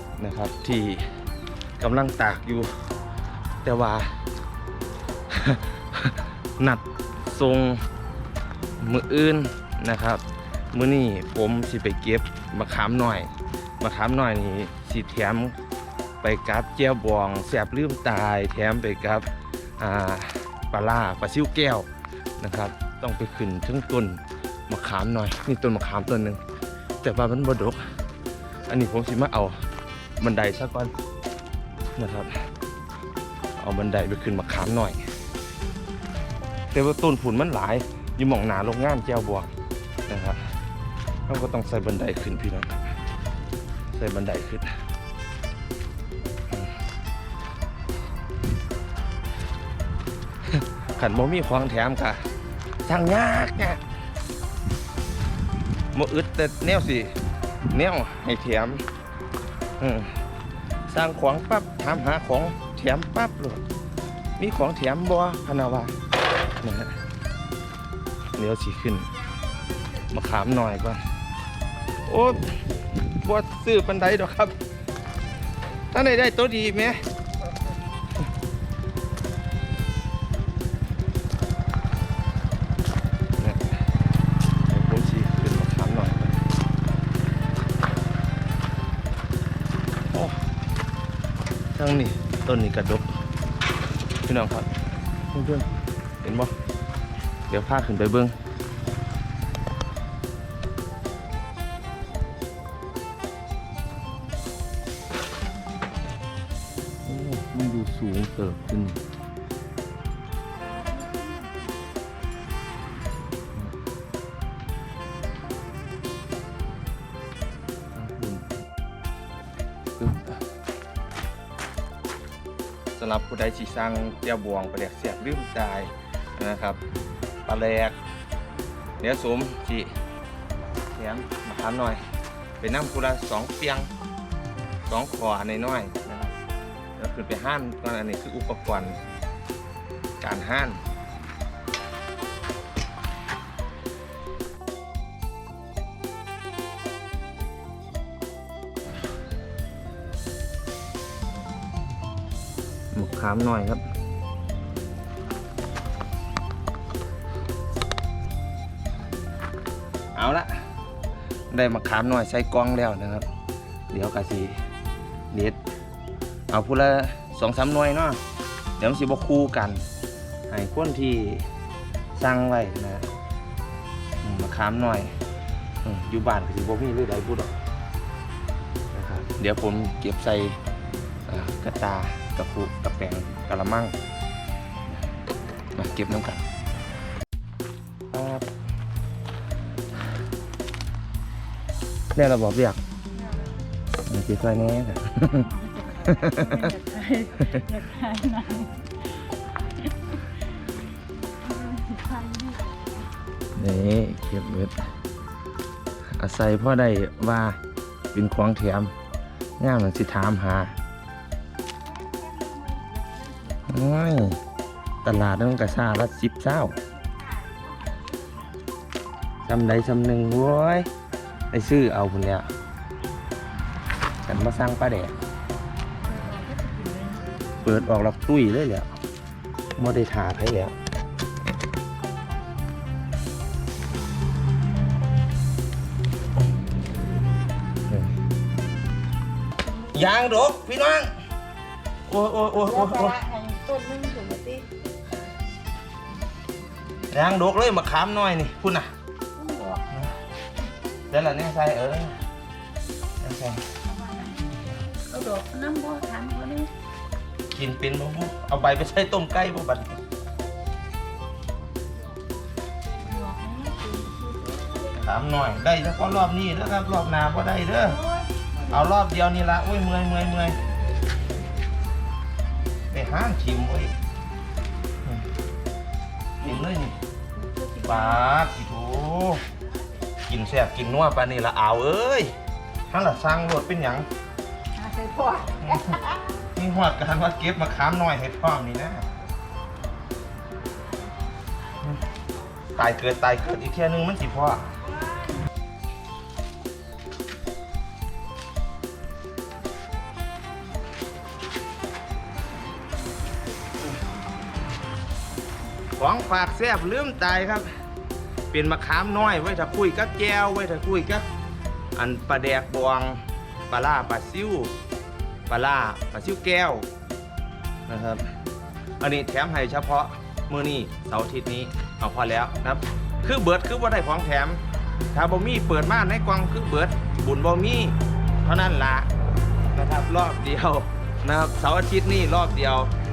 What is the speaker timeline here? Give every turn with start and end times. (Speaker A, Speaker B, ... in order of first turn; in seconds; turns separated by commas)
Speaker A: 0.2-1.1, Speaker A: 1.8-2.7, Speaker A: 3.6-4.2, Speaker A: 5.3-7.8, Speaker A: 8.8-15.6, Speaker A: 16.2-19.3, Speaker A: 19.8-21.9, Speaker A: 22.4-26.4, Speaker A: 27.0-27.8, Speaker A: 28.7-29.6, Speaker A: 30.2-30.9, Speaker A: 32.0-32.4, Speaker A: 33.6-35.0, Speaker A: 36.7-39.5, Speaker A: 40.1-40.4, Speaker A: 41.3-42.8, Speaker A: 44.0-44.7, Speaker A: 50.5-52.2, Speaker A: 52.8-53.8, Speaker A: 55.9-57.1, Speaker A: 57.7-58.8, Speaker A: 59.8-60.1, Speaker A: 60.9-63.6, Speaker A: 64.4-65.9, Speaker A: 66.6-67.0, Speaker A: 68.4-69.1, Speaker A: 70.1-71.0, Speaker A: 72.1-74.6, Speaker A: 75.9-77.0, Speaker A: 83.4-83.8, Speaker A: 84.7-86.4, Speaker A: 90.1-90.4, Speaker A: 91.8-93.2, Speaker A: 94.3-94.7, Speaker A: 95.3-95.7, Speaker A: 96.2-96.5, Speaker A: 97.5-98.3, Speaker A: 107.1-109.0, Speaker B: 111.0-111.5, Speaker A: 118.0-118.6, Speaker A: 120.0-120.4, Speaker A: 123.0-126.8, Speaker A: 127.5-128.0, Speaker A: 129.0-129.9, Speaker A: 130.9-132.0, Speaker A: 132.6-133.9, Speaker A: 134.9-136.3, Speaker A: 137.0-139.0, Speaker A: 140.2-140.8, Speaker A: 152.9-153.8, Speaker A: 160.1-160.5, Speaker A: 161.5-163.3, Speaker A: 163.9-164.6, Speaker A: 165.3-165.6, Speaker A: 166.5-168.2, Speaker A: 168.8-169.8, Speaker A: 170.5-171.5, Speaker A: 172.2-173.1, Speaker A: 174.2-175.1, Speaker A: 175.8-177.5, Speaker A: 178.9-180.6, Speaker A: 181.3-183.9, Speaker A: 185.8-186.4, Speaker A: 188.1-188.5, Speaker A: 192.2-192.8, Speaker A: 194.1-195.5, Speaker B: 195.4-198.9, Speaker A: 196.0-196.7, Speaker B: 201.4-202.8, Speaker A: 203.6-204.8, Speaker A: 206.2-207.6, Speaker A: 208.1-208.9, Speaker A: 209.6-210.8, Speaker B: 211.8-213.7, Speaker A: 213.7-214.4, Speaker A: 215.0-216.8, Speaker B: 217.0-218.6, Speaker A: 219.5-220.9, Speaker A: 221.5-222.5, Speaker A: 224.3-225.2, Speaker B: 226.1-227.3, Speaker A: 227.6-228.9, Speaker A: 229.8-230.8, Speaker A: 237.9-238.2, Speaker A: 239.9-241.1, Speaker A: 242.1-243.2, Speaker B: 242.7-244.7, Speaker A: 247.1-248.9, Speaker B: 249.4-249.9, Speaker A: 251.1-252.2, Speaker A: 253.2-253.7, Speaker B: 253.9-256.7, Speaker A: 257.5-260.0, Speaker B: 263.0-264.9, Speaker A: 264.9-268.0, Speaker B: 268.1-268.8, Speaker A: 268.7-270.6, Speaker A: 272.9-273.9, Speaker A: 276.4-277.0, Speaker B: 277.4-278.2, Speaker A: 277.8-279.4, Speaker A: 280.3-282.3, Speaker A: 282.9-284.1, Speaker B: 284.8-286.2, Speaker A: 285.6-286.0, Speaker A: 286.6-289.1, Speaker A: 292.8-294.6, Speaker A: 306.0-307.7, Speaker A: 308.5-311.3, Speaker A: 311.9-314.7, Speaker A: 315.5-316.9, Speaker A: 317.9-318.3, Speaker A: 319.0-329.1, Speaker A: 329.7-332.9